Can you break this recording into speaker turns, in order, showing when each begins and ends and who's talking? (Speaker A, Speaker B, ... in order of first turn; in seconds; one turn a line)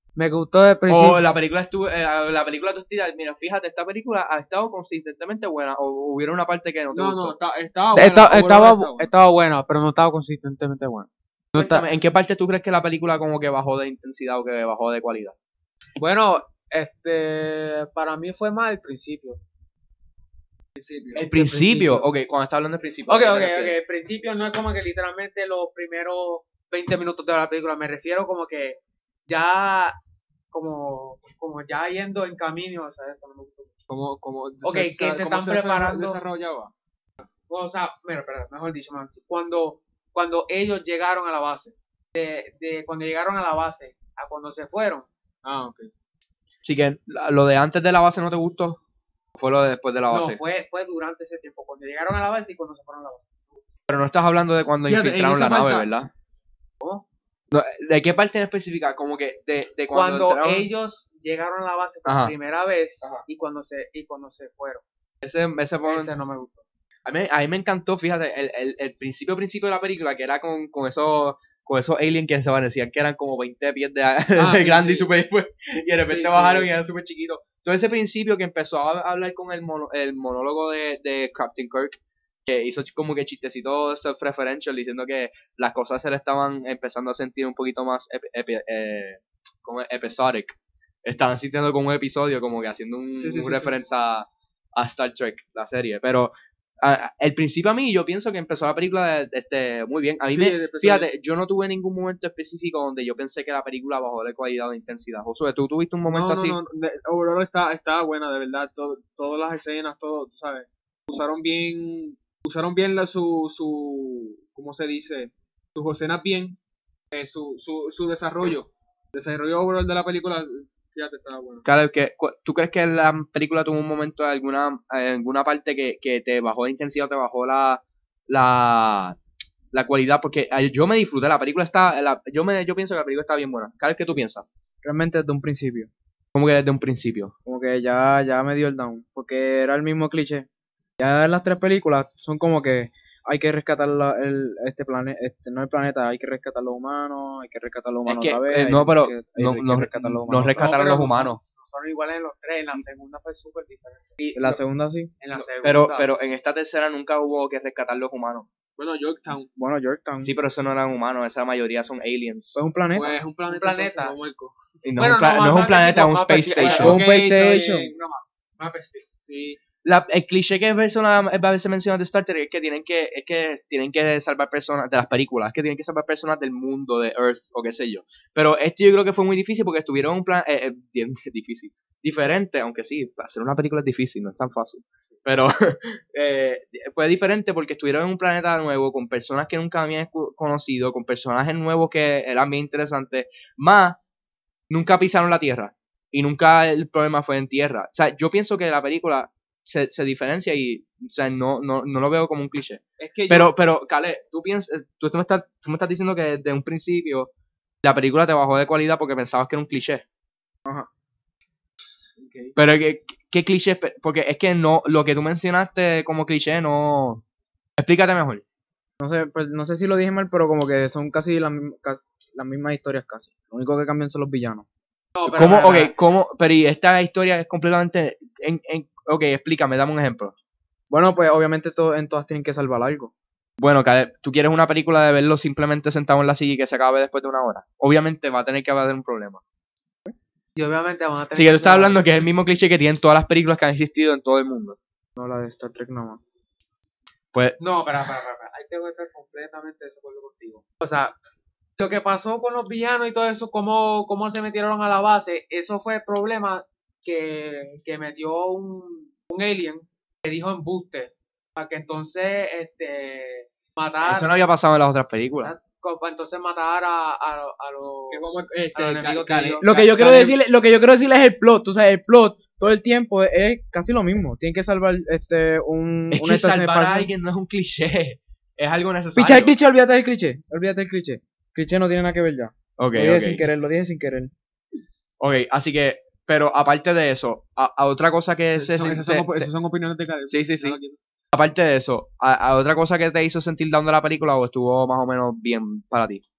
Speaker A: 0.2-1.3
Speaker B: 0.9-7.4
Speaker C: 6.9-9.1
Speaker A: 7.9-11.8
Speaker B: 11.6-15.3
Speaker A: 16.0-19.4
Speaker C: 20.8-21.3
Speaker B: 21.1-23.8
Speaker A: 21.3-22.1
Speaker A: 23.1-30.0
Speaker A: 30.5-33.8
Speaker C: 33.9-36.7
Speaker A: 34.6-36.2
Speaker A: 37.5-45.1
Speaker C: 45.4-45.9
Speaker B: 46.6-48.8
Speaker B: 49.4-50.4
Speaker A: 50.1-53.3
Speaker B: 53.9-56.1
Speaker C: 54.9-55.9
Speaker B: 57.5-60.7
Speaker A: 59.9-64.8
Speaker B: 62.1-62.3
Speaker B: 65.2-66.1
Speaker A: 65.8-66.6
Speaker B: 67.0-106.6
Speaker C: 74.4-75.1
Speaker A: 76.0-76.8
Speaker C: 93.2-93.8
Speaker C: 100.3-101.1
Speaker C: 106.1-116.6
Speaker C: 117.1-121.7
Speaker B: 121.7-129.2
Speaker B: 129.7-134.5
Speaker D: 134.8-135.9
Speaker B: 136.3-137.3
Speaker D: 137.5-140.5
Speaker D: 141.0-150.6
Speaker B: 148.1-151.4
Speaker A: 150.5-154.1
Speaker B: 154.2-154.6
Speaker D: 154.3-155.1
Speaker A: 155.2-156.1
Speaker B: 155.6-158.5
Speaker C: 158.8-159.5
Speaker D: 159.6-160.3
Speaker B: 160.2-162.6
Speaker D: 162.6-163.2
Speaker C: 162.9-164.6
Speaker A: 163.4-164.3
Speaker B: 164.8-167.0
Speaker A: 165.0-167.0
Speaker C: 166.6-168.3
Speaker D: 166.7-167.9
Speaker A: 168.6-169.1
Speaker C: 169.2-169.6
Speaker B: 169.8-194.0
Speaker B: 194.7-207.3
Speaker C: 203.0-203.5
Speaker B: 207.8-210.0
Speaker C: 212.2-212.6
Speaker B: 212.6-217.2
Speaker B: 217.8-218.4
Speaker D: 219.0-224.7
Speaker A: 225.2-225.9
Speaker B: 225.3-230.3
Speaker D: 230.9-233.1
Speaker B: 233.6-239.4
Speaker A: 240.6-242.1
Speaker B: 241.3-244.8
Speaker D: 245.2-246.2
Speaker B: 247.3-247.6
Speaker A: 247.6-251.2
Speaker A: 251.8-264.3
Speaker B: 264.1-265.5
Speaker A: 265.4-269.7
Speaker C: 268.1-270.4
Speaker D: 269.6-277.1
Speaker B: 276.1-279.5
Speaker D: 279.1-284.3
Speaker B: 282.8-283.4
Speaker B: 285.2-289.5
Speaker C: 288.5-291.0
Speaker B: 290.3-290.8
Speaker B: 291.3-296.2